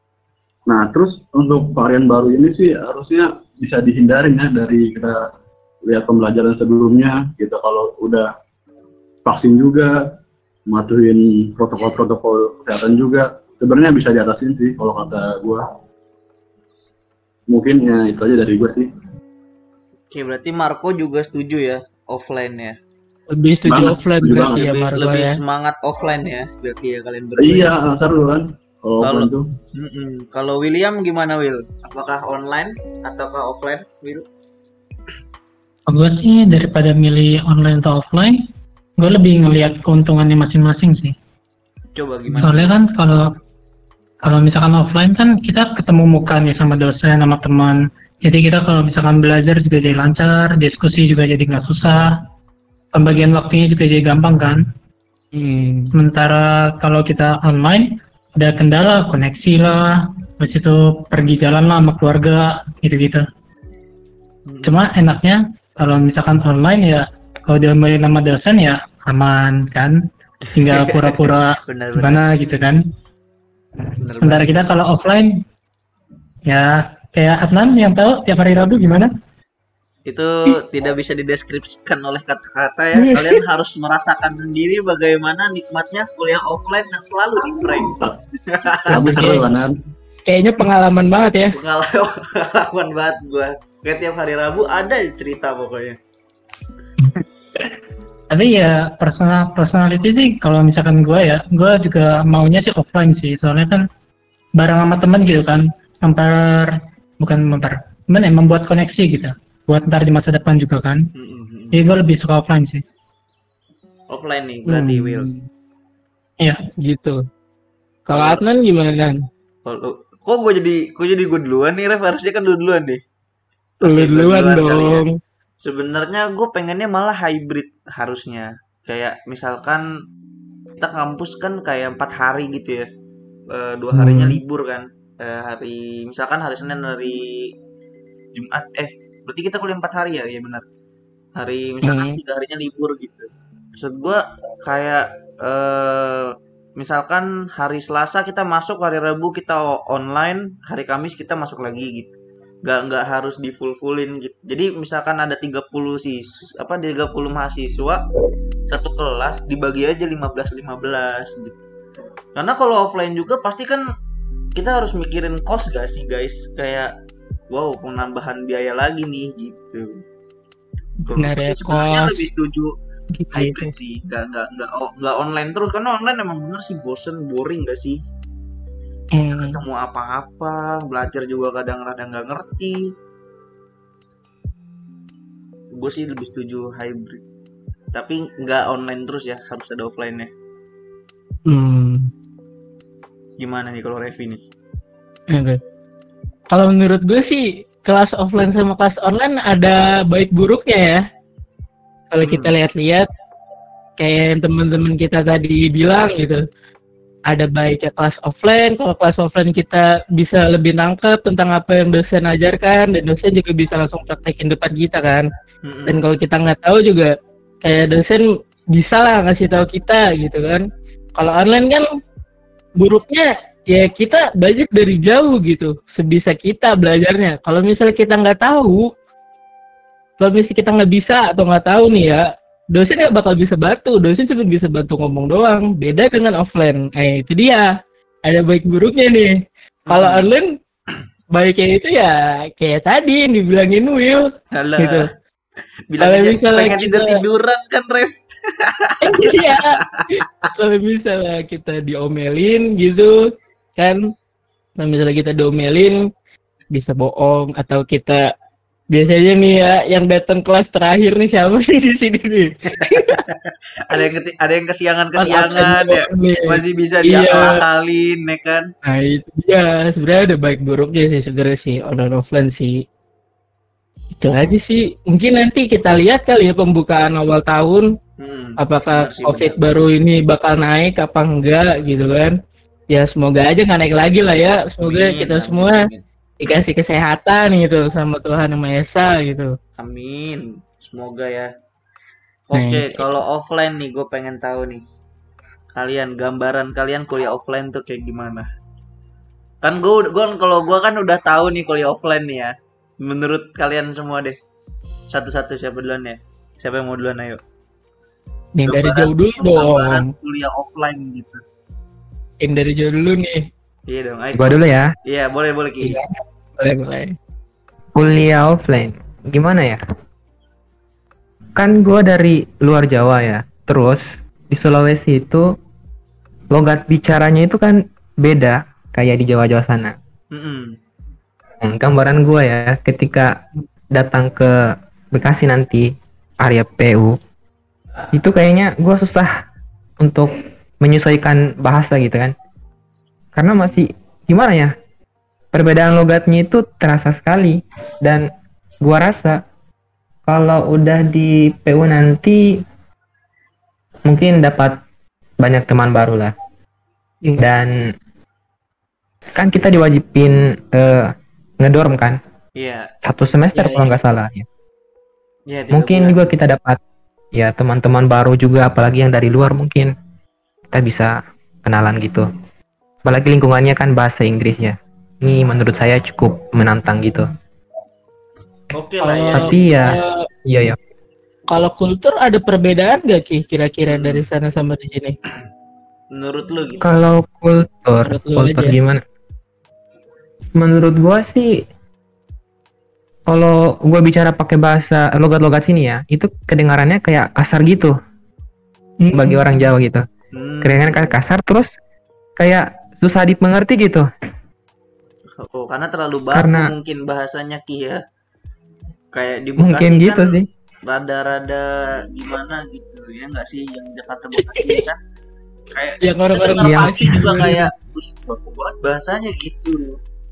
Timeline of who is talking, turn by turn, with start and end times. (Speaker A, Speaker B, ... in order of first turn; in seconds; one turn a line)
Speaker A: 0.7-5.2
Speaker A: 5.9-8.3
Speaker A: 9.2-9.9
Speaker A: 10.7-15.7
Speaker A: 17.5-18.9
Speaker B: 20.1-22.8
Speaker C: 23.3-25.4
Speaker A: 23.7-24.6
Speaker B: 24.5-27.7
Speaker A: 27.4-29.5
Speaker B: 29.0-34.2
Speaker D: 35.9-38.4
Speaker D: 39.0-41.2
Speaker B: 42.0-42.7
Speaker D: 42.3-43.3
Speaker D: 44.2-52.2
Speaker D: 52.9-54.6
Speaker C: 55.3-55.9
Speaker D: 56.0-63.3
Speaker B: 64.5-64.8
Speaker D: 64.6-70.0
Speaker B: 70.5-72.3
Speaker D: 70.5-72.8
Speaker B: 74.0-74.5
Speaker D: 74.1-75.4
Speaker D: 76.5-79.1
Speaker B: 80.1-88.0
Speaker C: 83.0-83.3
Speaker B: 88.5-89.0
Speaker C: 88.9-89.4
Speaker A: 88.9-89.8
Speaker C: 90.3-91.5
Speaker B: 91.5-96.0
Speaker D: 98.3-103.8
Speaker D: 104.6-111.1
Speaker B: 111.2-112.0
Speaker D: 111.7-112.8
Speaker B: 114.1-115.3
Speaker C: 114.7-115.4
Speaker C: 116.8-117.2
Speaker C: 118.1-119.2
Speaker B: 118.1-118.4
Speaker B: 119.7-123.0
Speaker B: 123.8-125.0
Speaker C: 123.8-125.1
Speaker B: 125.6-129.8
Speaker B: 130.8-132.9
Speaker B: 133.5-137.5
Speaker C: 133.9-134.4
Speaker B: 138.4-140.6
Speaker B: 141.4-152.1
Speaker C: 141.8-142.2
Speaker B: 152.7-158.0
Speaker B: 158.7-161.6
Speaker B: 162.4-163.8
Speaker B: 164.6-166.9
Speaker B: 167.5-169.9
Speaker B: 171.1-172.7
Speaker C: 171.1-172.2
Speaker C: 173.2-173.7
Speaker B: 173.3-178.0
Speaker C: 179.2-179.6
Speaker B: 179.3-182.8
Speaker B: 185.8-187.2
Speaker B: 187.9-190.3
Speaker C: 191.5-192.0
Speaker B: 193.4-194.4
Speaker C: 195.3-195.6
Speaker C: 196.5-201.0
Speaker C: 202.1-203.1
Speaker B: 202.2-202.5
Speaker C: 204.0-206.4
Speaker C: 207.3-215.3
Speaker B: 215.6-216.0
Speaker C: 215.9-217.1
Speaker C: 217.6-218.2
Speaker C: 218.8-220.6
Speaker C: 221.2-221.8
Speaker C: 222.8-228.9
Speaker C: 230.2-232.2
Speaker C: 232.7-237.7
Speaker C: 238.3-239.3
Speaker B: 239.9-240.3
Speaker C: 239.9-240.5
Speaker C: 241.4-244.3
Speaker B: 244.6-245.0
Speaker C: 244.8-245.1
Speaker B: 245.9-250.1
Speaker C: 246.0-247.2
Speaker C: 249.0-253.1
Speaker C: 254.8-256.0
Speaker C: 256.7-258.2
Speaker C: 258.9-263.2
Speaker B: 263.1-263.3
Speaker B: 263.9-268.7
Speaker C: 265.2-267.6
Speaker C: 268.9-272.7
Speaker C: 274.2-277.9
Speaker B: 278.2-279.6
Speaker C: 278.6-282.4
Speaker C: 282.9-285.8
Speaker B: 284.8-286.0
Speaker C: 286.4-289.5
Speaker B: 289.8-291.5
Speaker B: 292.5-294.8
Speaker C: 292.5-293.0
Speaker B: 295.7-298.5
Speaker B: 299.6-304.4
Speaker B: 305.1-307.4
Speaker C: 308.6-310.1
Speaker B: 308.6-311.4
Speaker C: 312.4-313.4
Speaker B: 313.9-316.0
Speaker E: 314.3-314.9
Speaker C: 316.6-317.1
Speaker E: 317.9-319.8
Speaker E: 321.6-325.5
Speaker E: 326.5-329.9
Speaker B: 330.3-330.7
Speaker E: 331.6-333.3
Speaker E: 333.9-334.5
Speaker E: 335.1-335.9
Speaker E: 336.4-337.1
Speaker E: 338.1-339.3
Speaker E: 340.0-342.3
Speaker E: 343.4-344.7
Speaker E: 345.5-348.3
Speaker E: 348.8-349.4
Speaker E: 350.3-352.6
Speaker E: 354.1-354.8
Speaker E: 355.4-356.3
Speaker E: 357.4-357.8
Speaker E: 359.4-362.2
Speaker B: 362.6-362.9
Speaker E: 363.0-364.4
Speaker C: 363.5-363.9
Speaker B: 365.5-366.3
Speaker E: 365.7-366.8
Speaker E: 367.3-369.9
Speaker E: 370.7-371.1
Speaker E: 371.6-372.3
Speaker E: 373.1-377.3
Speaker B: 378.7-379.8
Speaker C: 379.0-380.2
Speaker E: 379.3-380.8
Speaker C: 381.5-385.1
Speaker B: 383.9-384.2
Speaker B: 386.1-386.9
Speaker E: 386.8-389.0
Speaker C: 388.0-388.8
Speaker E: 390.6-391.5
Speaker E: 393.3-397.9
Speaker C: 399.0-399.4
Speaker E: 399.1-400.0
Speaker B: 400.3-401.2
Speaker E: 400.6-401.7
Speaker E: 402.4-404.1
Speaker B: 405.4-408.0
Speaker E: 406.3-406.7
Speaker B: 409.1-415.0
Speaker E: 409.6-410.5
Speaker C: 414.4-414.9
Speaker B: 415.7-420.0
Speaker C: 416.0-417.6
Speaker E: 416.6-417.2